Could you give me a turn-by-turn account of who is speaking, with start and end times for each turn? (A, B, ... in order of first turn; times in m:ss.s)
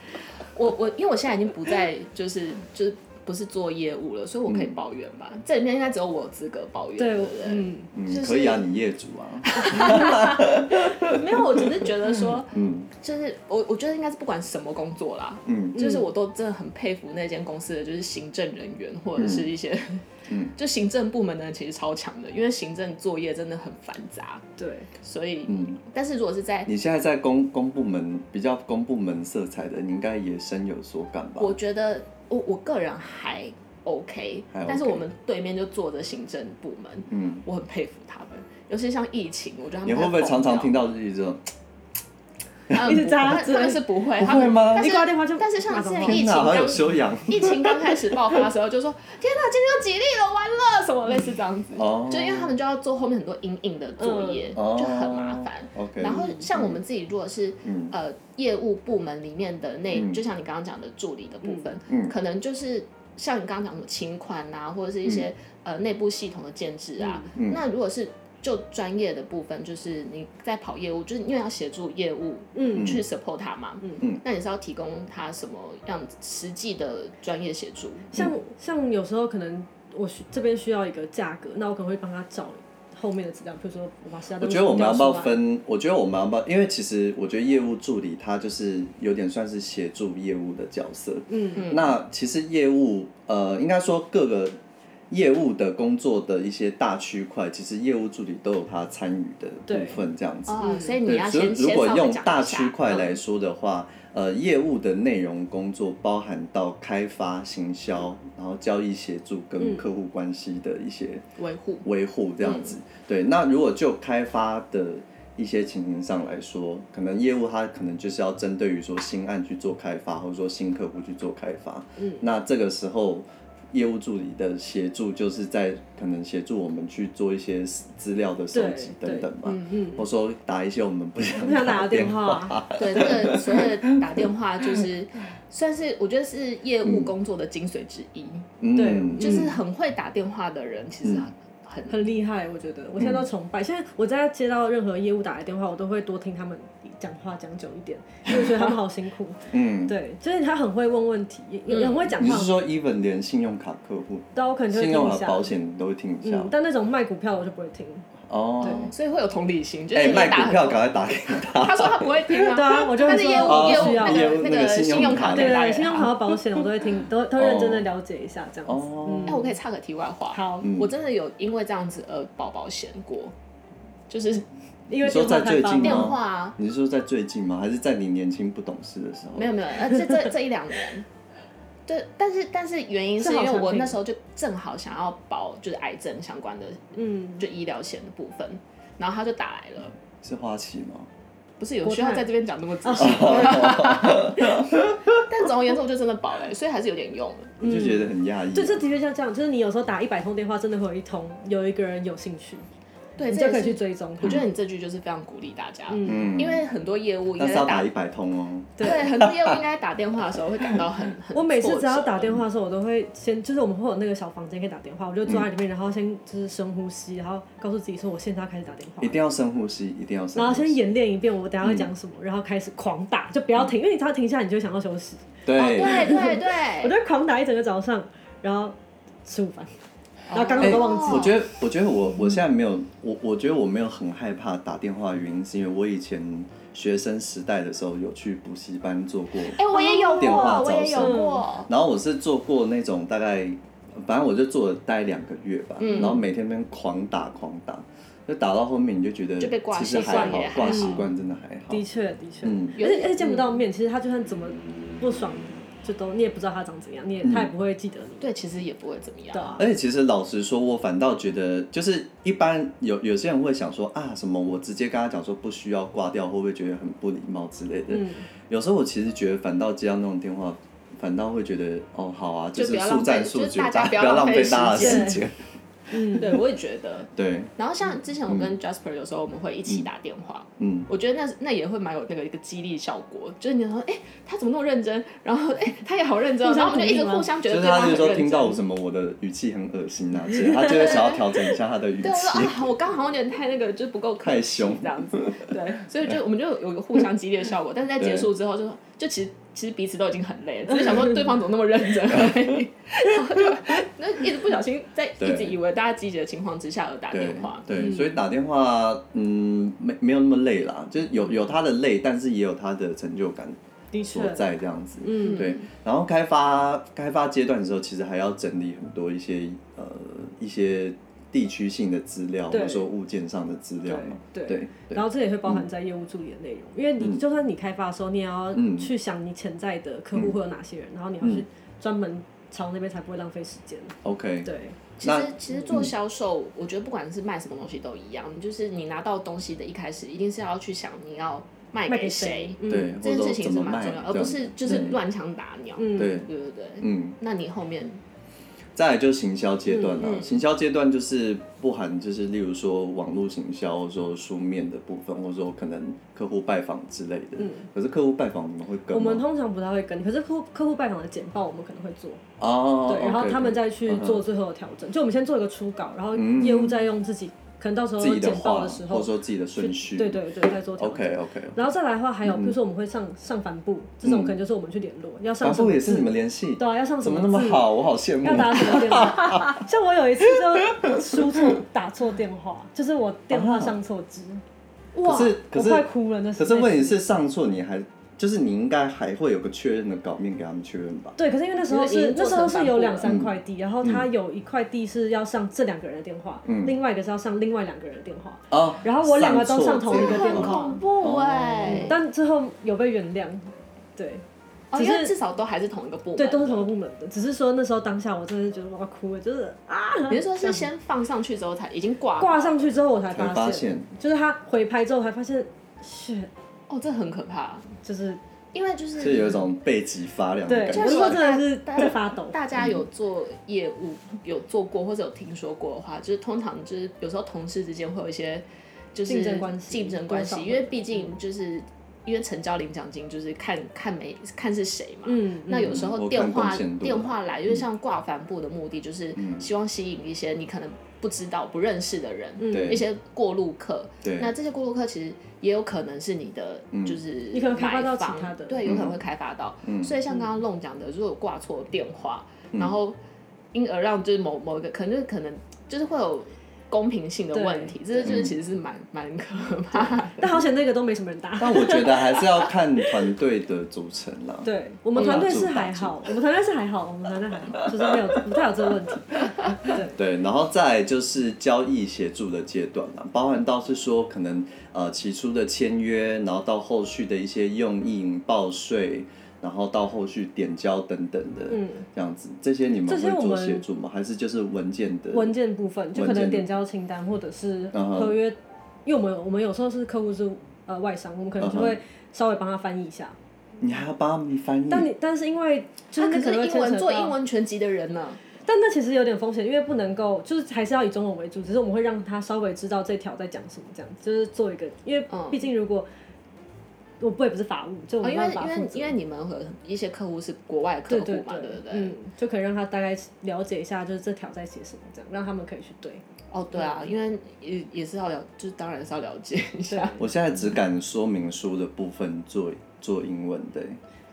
0:00.5-0:08.6 A
0:04.5-0:04.8 B
0:07.0-0:07.9 C
0:07.9-0:12.9 B
0:09.4-0:24.4 A
0:15.5-0:15.8 B
0:15.8-0:16.1 C
0:19.2-0:19.5 B
0:20.3-0:20.5 B
0:24.6-0:24.9 C
0:25.0-0:26.7 A
0:25.5-0:25.8 B
0:26.7-0:31.6 B
0:31.4-0:40.8 A
0:34.5-0:35.0 B
0:37.1-0:37.4 B
0:39.8-0:41.4 B
0:42.7-1:18.1 A
0:42.7-0:43.9 C
0:44.2-0:45.0 B
0:44.6-0:46.3 C
0:46.0-0:48.4 B
0:51.8-0:52.6 B
0:54.0-0:54.6 C
0:54.6-0:56.8 B
0:57.6-0:58.0 B
0:59.9-1:00.2 B
1:01.9-1:02.2 B
1:07.0-1:07.3 C
1:07.4-1:07.6 B
1:12.6-1:12.9 C
1:12.8-1:13.1 B
1:18.1-1:25.4 C
1:24.4-1:34.6 B
1:31.3-1:31.7 C
1:31.6-1:32.0 A
1:35.1-1:51.2 B
1:39.7-1:40.0 C
1:40.5-1:43.2 A
1:40.6-1:40.9 C
1:49.6-1:49.9 C
1:51.4-1:51.9 A
1:51.8-2:14.2 B
1:52.4-1:52.8 A
2:02.0-2:02.2 C
2:08.5-2:10.0 C
2:09.4-2:09.8 A
2:11.4-2:12.6 C
2:12.8-2:18.5 A
2:16.8-2:17.1 B
2:18.6-2:19.6 B
2:18.8-2:19.5 C
2:19.2-2:22.1 A
2:21.9-2:32.5 C
2:23.0-2:23.3 B
2:28.3-2:28.7 B
2:29.5-2:30.0 B
2:31.7-2:32.2 A
2:32.2-2:36.5 B
2:34.4-2:35.6 C
2:36.2-2:38.1 C
2:38.3-2:38.9 B
2:38.6-2:38.9 C
2:38.6-2:46.2 A
2:39.9-2:42.4 B
2:42.5-2:44.4 C
2:43.1-2:45.7 B
2:45.3-2:49.5 C
2:47.4-2:47.9 B
2:48.7-2:49.5 B
2:49.3-2:53.3 A
2:50.3-2:50.7 C
2:50.6-2:50.9 B
2:54.1-2:54.5 A
2:54.9-2:56.2 C
2:55.0-2:59.6 B
2:55.8-2:56.6 A
2:59.4-3:01.1 A
3:01.9-3:10.0 A
3:03.2-3:04.0 C
3:07.0-3:07.4 C
3:10.2-3:11.1 B
3:11.6-3:17.6 A
3:11.8-3:12.3 C
3:12.8-3:13.8 C
3:13.0-3:15.2 B
3:17.6-3:22.7 C
3:17.6-3:18.8 B
3:23.2-3:27.9 A
3:23.3-3:24.4 C
3:25.9-3:26.4 C
3:26.0-3:26.6 B
3:27.4-3:29.6 B
3:28.8-3:29.1 C
3:28.8-3:32.4 A
3:31.3-3:39.2 C
3:39.0-3:40.8 B
3:40.4-3:49.7 C
3:41.6-3:41.9 B
3:45.4-3:46.2 B
3:45.6-3:47.0 A
3:50.3-3:51.3 A
3:50.3-3:51.4 C
3:50.6-4:11.8 B
3:59.5-4:01.7 A
3:59.7-4:01.4 C
4:05.8-4:06.2 A
4:09.4-4:11.0 A
4:10.0-4:11.0 C
4:11.7-4:18.3 C
4:12.4-4:12.8 B
4:12.8-4:13.5 A
4:17.2-4:17.5 B
4:18.2-4:19.6 A
4:19.3-4:19.6 C
4:19.6-4:35.4 B
4:27.9-4:28.3 C
4:32.6-4:35.2 A
4:34.8-4:35.2 C
4:35.9-4:36.3 C
4:36.1-4:48.6 A
4:37.2-4:37.5 B
4:38.3-4:38.6 B
4:40.6-4:40.9 B
4:46.4-4:47.3 C
4:47.5-4:52.7 B
4:50.6-4:51.3 A
4:52.0-5:07.7 A
4:54.2-4:55.5 B
4:58.0-4:58.3 B
5:05.2-5:05.6 B
5:07.1-5:25.7 B
5:07.7-5:08.2 C
5:13.9-5:14.5 C
5:15.0-5:15.5 C
5:15.2-5:15.6 A
5:22.5-5:22.9 C
5:23.9-5:34.8 C
5:28.5-5:28.9 B
5:34.0-5:34.5 B
5:35.0-5:48.0 A
5:35.0-5:35.9 B
5:41.9-5:43.0 C
5:42.7-5:45.0 B
5:45.8-5:46.2 C
5:46.0-5:46.3 B
5:46.8-5:47.2 B
5:48.8-5:59.2 B
5:49.9-5:50.4 A
5:57.4-5:57.7 C
5:58.9-6:02.2 C
6:02.4-6:04.2 B
6:02.8-6:24.4 C
6:06.1-6:06.9 B
6:08.0-6:11.7 B
6:12.2-6:12.6 B
6:14.0-6:14.4 B
6:15.4-6:19.6 B
6:20.3-6:21.6 B
6:23.3-6:23.8 B
6:25.0-6:25.4 A
6:25.0-6:31.2 B
6:25.1-6:27.0 C
6:31.2-6:40.8 C
6:31.7-6:33.1 A
6:33.0-6:34.1 B
6:36.4-6:36.8 B
6:38.5-6:42.0 B
6:39.9-6:42.0 A
6:41.7-6:45.1 C
6:44.7-6:46.7 A
6:46.2-6:50.7 C
6:50.1-6:52.7 A
6:52.2-6:56.3 C
6:53.1-6:53.9 B
6:56.7-6:57.7 A
6:57.8-6:58.2 C
6:58.5-6:59.4 A
6:59.0-7:01.2 B
7:00.5-7:02.4 C
7:00.7-7:33.0 A
7:02.6-7:02.8 B
7:09.1-7:11.1 C
7:15.1-7:15.9 C
7:15.6-7:17.6 B
7:19.2-7:19.5 B
7:22.4-7:22.8 C
7:22.5-7:22.9 B
7:24.0-7:24.3 B
7:26.7-7:27.0 B
7:27.3-7:28.7 C
7:28.6-7:29.0 B
7:29.6-7:30.0 B
7:32.5-7:32.8 B
7:33.5-7:40.3 A
7:37.3-7:37.8 C
7:38.0-7:38.4 B
7:39.8-7:42.2 C
7:41.4-7:46.0 B
7:44.4-7:50.0 C
7:45.0-7:45.2 A
7:49.7-8:05.4 B
8:01.5-8:01.9 C
8:02.9-8:03.6 C
8:05.1-8:13.2 C
8:05.9-8:06.5 B
8:07.7-8:08.2 B
8:11.4-8:11.8 B
8:13.6-8:14.9 B
8:14.7-8:17.2 C
8:16.0-8:18.2 A
8:18.4-8:25.9 C
8:25.1-8:25.4 A
8:27.0-8:29.0 C
8:28.0-8:32.0 A
8:30.9-8:36.0 C
8:36.3-8:40.0 A
8:36.6-8:36.9 C
8:39.7-8:40.0 C
8:40.0-8:43.8 B